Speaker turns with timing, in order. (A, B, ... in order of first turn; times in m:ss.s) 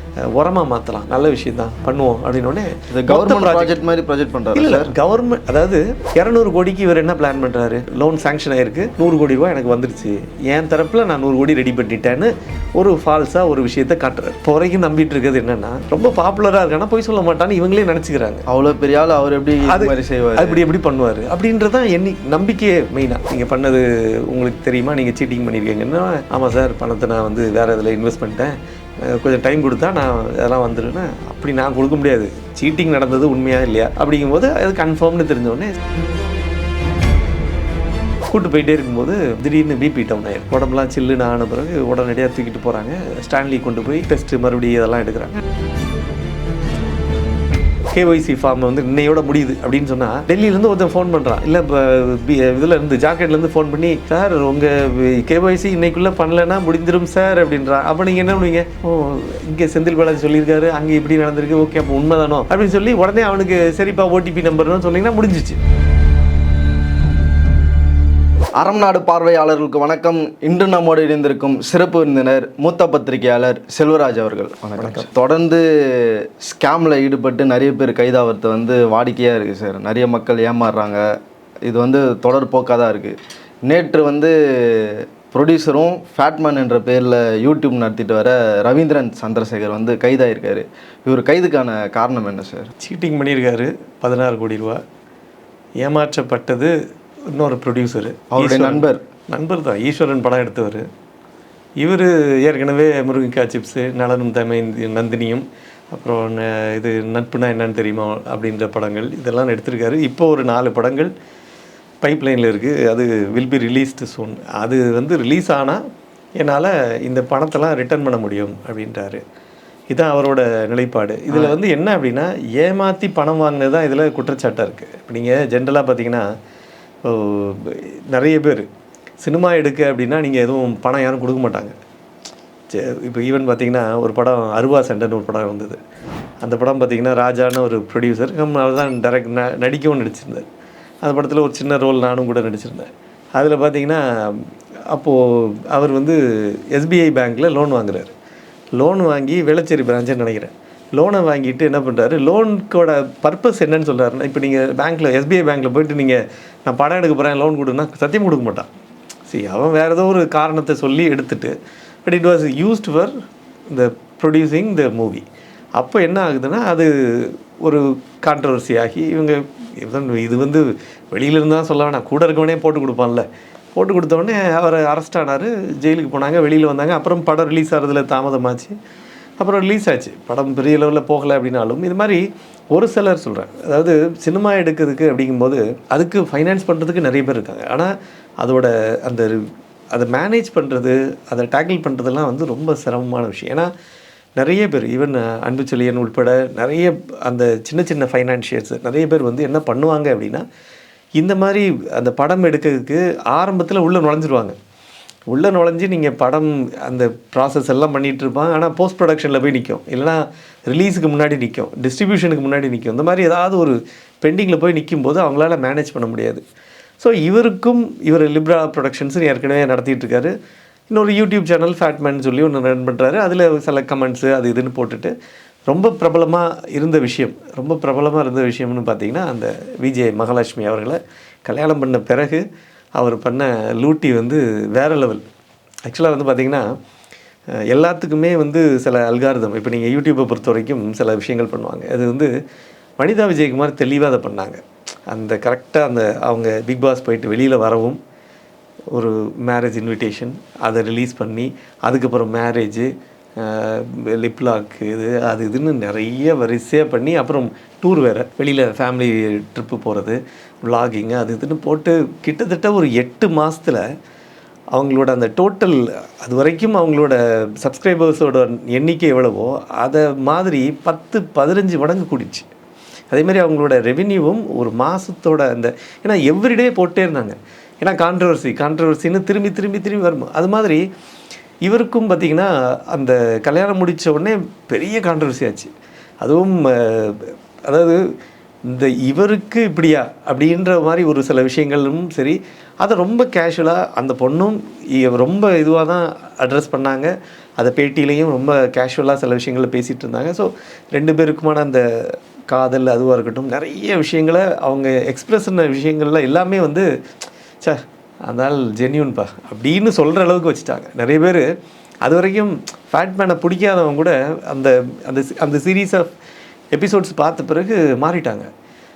0:00.3-0:03.8 A
0:02.9-0:04.9 B
0:04.6-0:18.4 A
0:18.5-0:20.6 B
0:19.7-0:35.7 A
0:38.3-0:45.4 A
0:47.9-1:05.6 A
1:08.6-1:21.1 B
1:14.8-1:15.1 A
1:21.6-1:23.2 B
1:23.7-1:32.7 B
1:32.8-1:34.8 A
1:35.8-1:36.7 A
1:37.3-1:40.8 A
1:38.3-1:39.0 B
1:41.8-1:51.1 A
1:52.0-1:55.8 A
1:56.4-1:59.2 A
1:59.9-2:06.2 A
2:01.3-2:01.6 B
2:07.0-2:08.7 A
2:09.2-2:11.8 A
2:12.7-2:15.8 A
2:16.4-2:20.5 A
2:21.0-2:28.1 A
2:28.8-2:38.7 A
2:39.3-2:41.6 A
2:42.1-2:43.2 A
2:43.7-2:45.2 A
2:45.8-2:58.8 A
2:59.4-3:09.4 A
3:09.9-3:13.7 A
3:14.4-3:20.4 A
3:21.2-3:24.6 A
3:25.3-3:36.4 A
3:37.0-3:40.3 A
3:40.9-3:45.1 A
3:45.7-3:52.4 A
3:53.0-3:55.2 A
3:55.9-3:56.7 A
3:57.7-4:02.3 A
4:03.0-4:08.0 A
4:08.9-4:23.8 A
4:24.7-4:32.5 A
4:33.1-4:40.8 A
4:41.6-4:45.7 A
4:46.2-4:48.0 A
4:48.7-5:06.9 A
5:07.6-5:11.5 A
5:12.0-5:16.1 A
5:16.7-5:18.5 A